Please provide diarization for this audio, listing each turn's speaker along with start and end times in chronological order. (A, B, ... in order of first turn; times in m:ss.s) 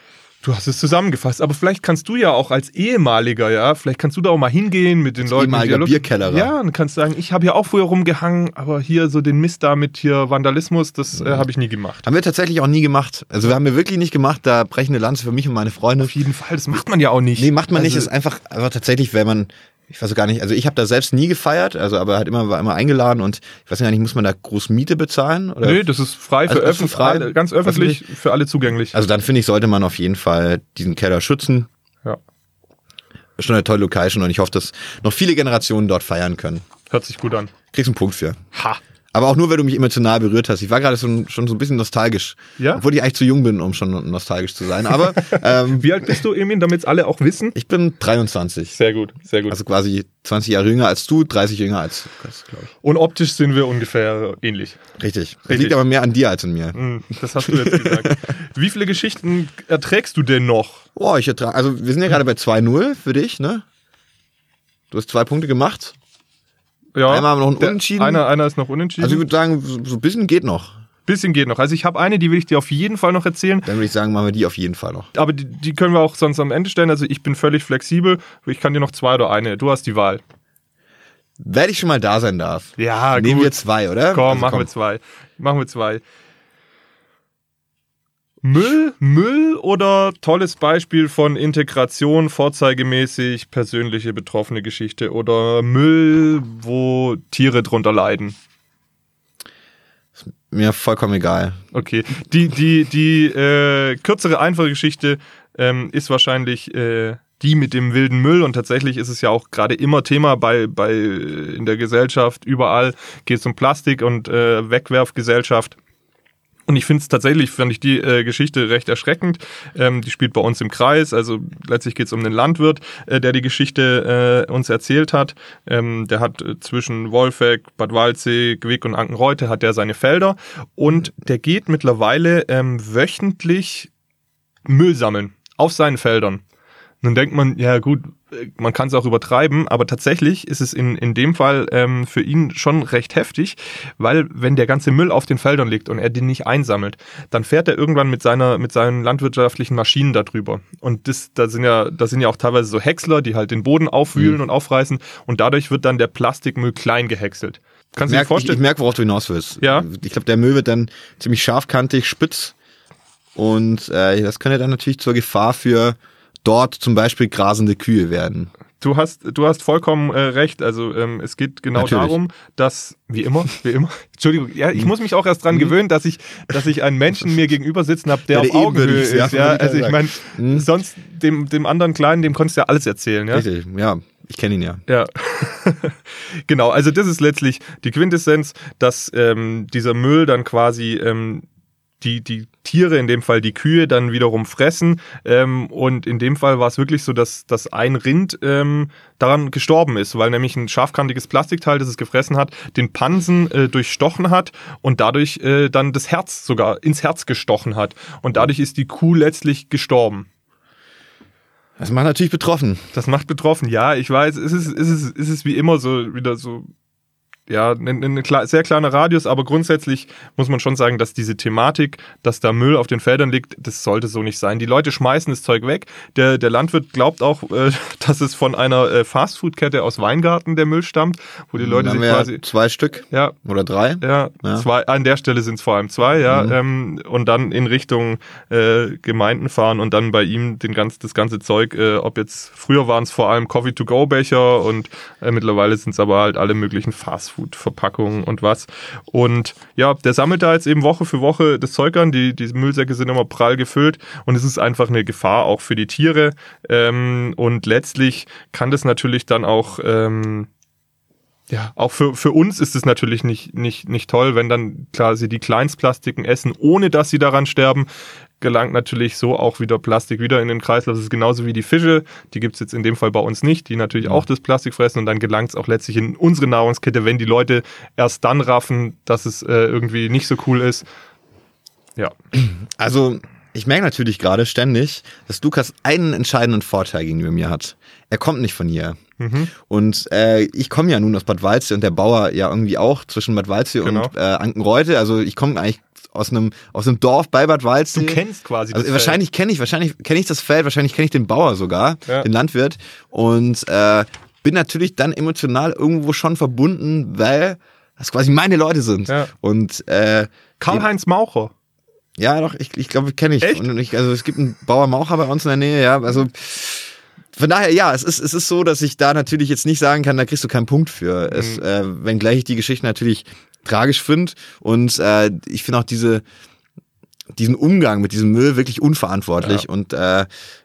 0:00.4-0:12.0 A
0:05.2-0:06.5 B
0:12.0-0:16.2 B
0:16.0-0:18.1 A
0:17.4-0:25.9 B
0:25.6-0:29.0 A
0:26.5-0:28.0 B
0:28.9-0:31.7 B
0:33.4-0:36.6 B
0:36.9-0:37.5 A
0:37.7-0:38.4 B
0:38.5-0:38.8 A
0:39.1-0:46.2 B
0:42.6-0:42.8 A
0:45.7-0:47.6 A
0:47.6-0:48.8 B
0:48.7-0:49.6 A
0:49.5-0:52.7 B
0:52.8-0:54.8 A
0:55.0-0:56.8 B
0:55.5-0:55.8 A
0:56.7-1:00.8 A
0:57.4-0:58.2 B
1:01.0-1:03.6 B
1:04.9-1:06.0 B
1:07.0-1:09.2 A
1:07.1-1:08.2 B
1:09.0-1:10.8 B
1:11.1-1:13.7 A
1:13.6-1:15.1 B
1:15.1-1:20.2 A
1:21.4-1:24.7 B
1:22.8-1:23.6 A
1:24.1-1:26.0 A
1:28.4-1:38.4 A
1:40.2-1:41.6 B
1:41.7-1:55.8 A
1:56.7-2:13.9 A
2:14.7-2:16.4 A
2:17.0-2:38.6 A
2:38.1-2:42.5 B
2:39.6-2:39.9 A
2:43.4-2:48.5 B
2:48.8-3:03.4 A
2:51.8-2:52.2 B
2:58.3-3:00.7 B
3:03.3-3:04.8 B
3:04.9-3:11.4 A
3:12.0-3:30.3 A
3:31.8-3:32.9 B
3:32.9-3:36.7 A
3:37.5-3:52.4 A
3:51.6-3:54.7 B
3:54.0-4:20.5 A
3:56.3-3:56.6 B
4:21.5-4:27.9 A
4:28.4-4:40.9 A
4:42.3-4:49.0 B
4:49.2-4:49.5 A
4:49.5-5:10.8 B
4:53.8-4:54.1 A
4:57.9-4:59.2 A
5:10.6-5:11.5 A
5:12.2-5:26.2 B
5:13.4-5:13.7 A
5:21.3-5:21.6 A
5:27.3-5:30.3 B
5:29.4-5:29.7 A